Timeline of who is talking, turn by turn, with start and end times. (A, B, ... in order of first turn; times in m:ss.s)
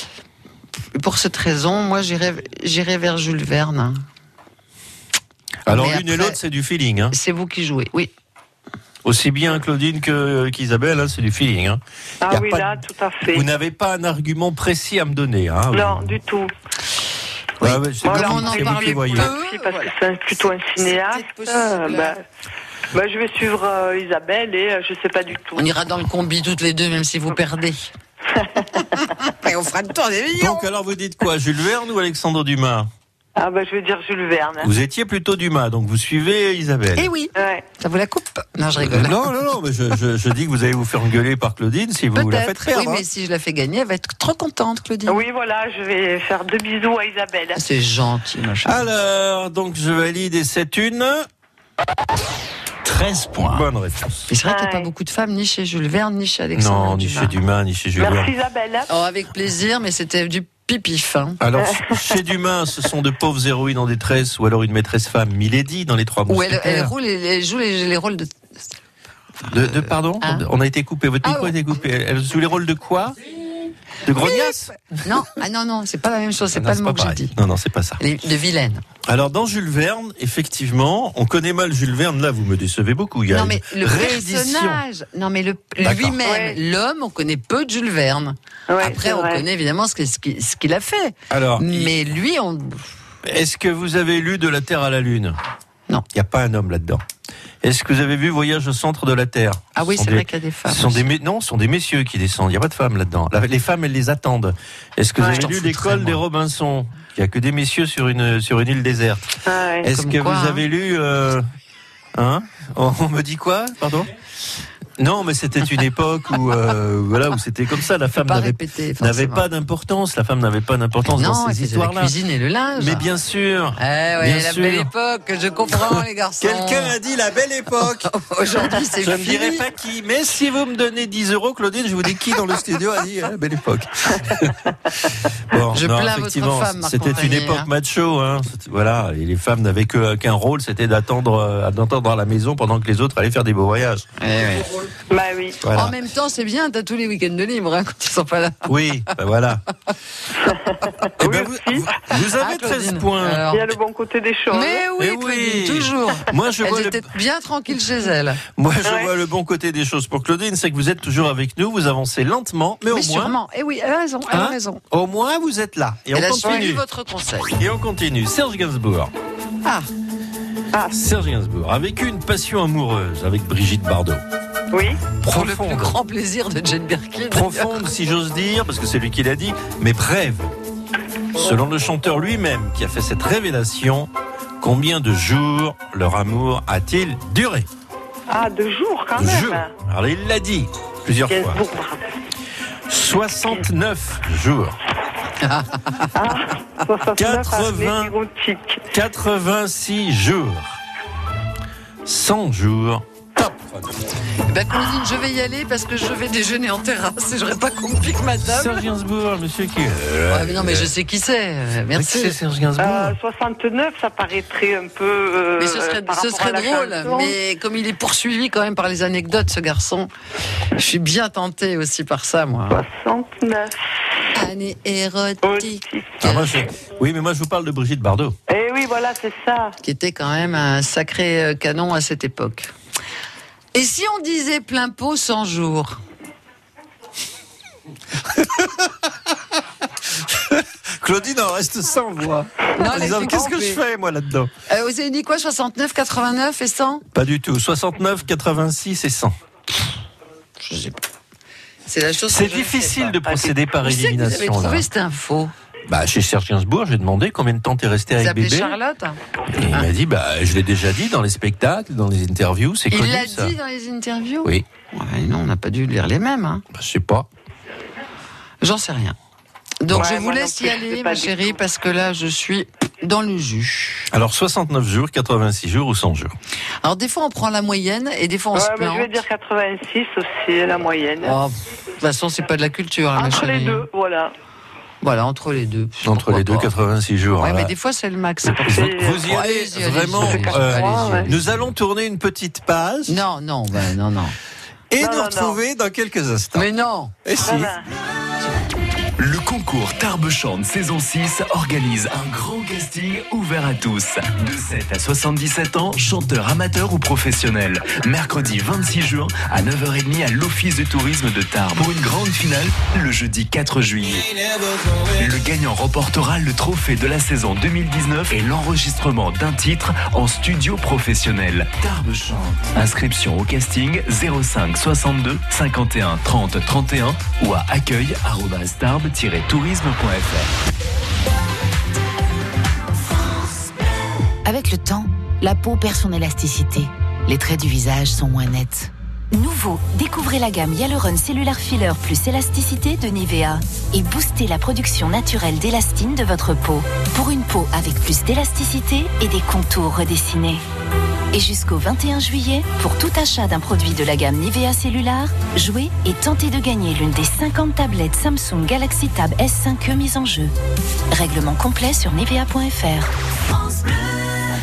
0:00.9-0:04.0 A
0:05.6-0:07.2 B
0:05.7-0:06.4 A
0:07.1-0:08.1 A
0:09.0-0:16.2 B
0:12.2-0:13.4 C
0:15.7-0:16.5 C
0:17.6-0:19.3 B
0:17.6-0:22.2 A
0:18.0-0:22.2 C
0:22.9-0:25.7 C
0:25.6-0:27.9 A
0:28.3-0:28.6 C
0:28.8-0:30.6 A
0:30.4-0:32.9 B
0:33.4-0:34.7 C
0:34.6-0:37.1 B
0:37.0-0:39.4 A
0:37.4-0:37.6 C
0:38.8-0:43.0 B
0:42.1-0:45.2 A
0:45.1-0:47.6 C
0:47.5-0:48.8 A
0:48.6-0:51.3 B
0:52.8-0:53.6 D
0:53.5-0:54.3 B
0:54.3-0:57.4 A
0:54.4-0:54.9 C
0:56.5-0:58.3 B
0:58.0-0:58.9 C
0:58.9-1:01.4 A
1:01.4-1:06.9 B
1:06.3-1:08.3 A
1:09.4-1:10.5 A
1:09.5-1:13.2 B
1:11.2-1:11.5 A
1:14.0-1:14.8 B
1:14.2-1:17.4 A
1:16.5-1:18.0 B
1:18.0-1:18.8 A
1:19.0-1:24.8 B
1:23.3-1:32.9 A
1:25.8-1:26.2 B
1:26.2-1:26.6 C
1:28.7-1:29.4 C
1:31.3-1:32.1 B
1:33.2-1:35.4 B
1:36.1-1:37.0 B
1:37.6-1:51.4 B
1:39.7-1:41.0 A
1:45.2-1:46.2 A
1:49.4-1:49.8 C
1:49.9-1:50.6 A
1:52.1-1:54.1 B
1:55.0-2:02.1 B
1:58.2-1:59.5 A
2:01.1-2:03.0 A
2:02.8-2:04.9 B
2:03.8-2:07.0 A
2:05.7-2:08.1 B
2:07.8-2:09.6 A
2:08.7-2:14.7 B
2:15.5-2:24.0 B
2:15.7-2:17.7 A
2:24.2-2:24.8 A
2:25.1-2:25.6 C
2:25.6-2:25.9 B
2:25.7-2:29.1 A
2:28.7-2:29.6 B
2:30.5-2:31.9 C
2:31.2-2:33.5 B
2:32.1-2:33.7 A
2:33.5-2:34.8 C
2:34.5-2:38.4 A
2:35.0-2:37.1 B
2:38.5-2:43.3 B
2:38.8-2:39.1 C
2:42.9-2:44.8 A
2:44.3-2:46.8 B
2:46.1-2:47.6 A
2:47.6-2:49.1 B
2:49.6-2:49.9 A
2:50.9-2:54.2 B
2:54.7-2:55.0 C
2:55.2-2:56.0 B
2:55.2-2:57.9 A
2:57.3-3:00.5 B
3:01.3-3:07.7 B
3:08.3-3:09.7 C
3:09.2-3:11.6 B
3:11.3-3:12.0 C
3:12.9-3:14.8 B
3:15.4-3:16.1 A
3:16.2-3:18.8 C
3:17.2-3:18.1 B
3:18.9-3:20.8 B
3:22.0-3:23.9 B
3:24.5-3:28.8 A
3:28.4-3:30.9 B
3:30.3-3:32.4 A
3:31.9-3:33.2 B
3:32.8-3:37.4 C
3:35.6-3:40.1 A
3:40.8-3:42.8 A
3:42.7-3:43.8 C
3:44.3-3:46.6 A
3:45.4-3:46.1 C
3:46.2-3:48.4 B
3:48.5-3:49.7 C
3:49.8-3:52.7 A
3:53.7-3:56.0 A
3:58.3-3:58.9 B
4:00.3-4:04.5 B
4:02.8-4:03.8 A
4:04.7-4:07.0 A
4:07.1-4:09.3 B
4:10.6-4:11.0 A
4:11.8-4:15.5 A
4:12.3-4:14.9 B
4:15.9-4:18.8 B
4:18.2-4:19.9 A
4:19.5-4:23.5 B
4:22.9-4:26.6 A
4:26.7-4:27.3 B
4:28.6-4:29.2 A
4:29.8-4:34.1 A
4:29.9-4:31.6 C
4:34.1-4:36.3 B
4:36.8-4:39.2 A
4:38.5-4:41.4 C
4:41.2-4:43.9 A
4:43.2-4:44.3 C
4:45.0-4:46.7 A
4:46.0-4:47.7 B
4:47.4-4:51.4 A
4:48.4-4:53.2 B
4:48.7-4:49.2 C
4:50.2-4:51.3 C
4:53.1-4:54.4 A
4:54.9-4:56.7 B
4:55.0-4:55.6 C
4:56.5-4:57.1 A
4:57.2-4:57.7 B
4:57.4-4:57.8 C
4:59.2-5:14.4 D
5:15.1-5:30.5 D
5:34.4-5:38.9 E
5:39.3-5:50.6 F
5:51.3-6:00.5 F
6:01.1-6:03.1 F